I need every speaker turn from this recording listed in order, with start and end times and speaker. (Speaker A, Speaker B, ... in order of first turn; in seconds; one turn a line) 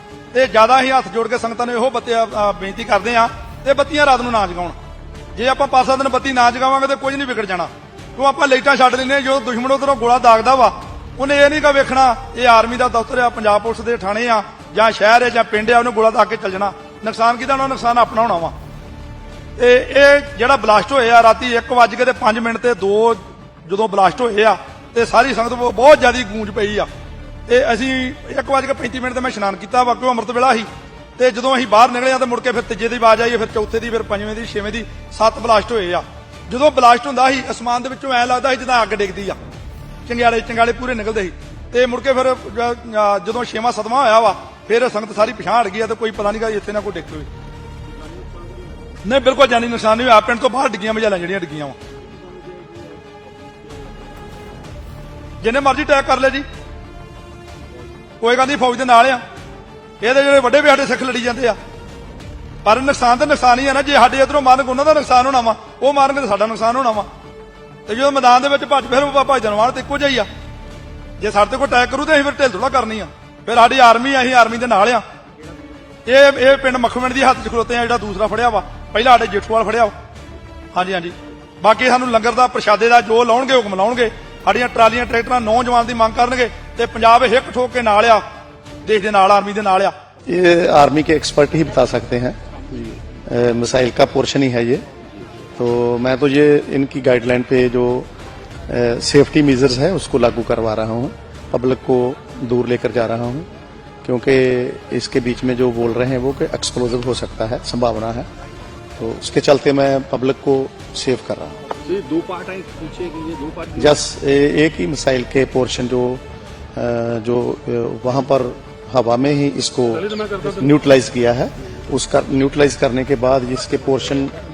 Speaker A: 0.3-4.8
Speaker A: 5.4-18.6
Speaker A: 19.6-26.9
Speaker A: 27.5-39.4
Speaker A: 40.1-47.3
Speaker B: 47.9-48.8
Speaker A: 49.0-51.8
Speaker B: 52.0-54.1
Speaker A: 55.4-56.5
Speaker A: 58.2-59.2
Speaker A: 60.0-61.6
Speaker A: 62.6-67.1
Speaker A: 67.9-70.3
Speaker A: 71.2-75.0
Speaker A: 76.1-79.9
Speaker A: 80.7-88.2
Speaker A: 88.8-89.9
Speaker C: 90.3-94.8
Speaker C: 95.6-98.1
Speaker C: 98.7-103.5
Speaker C: 104.0-108.3
Speaker C: 109.0-111.6
Speaker B: 111.8-114.0
Speaker C: 113.8-116.2
Speaker C: 116.8-124.3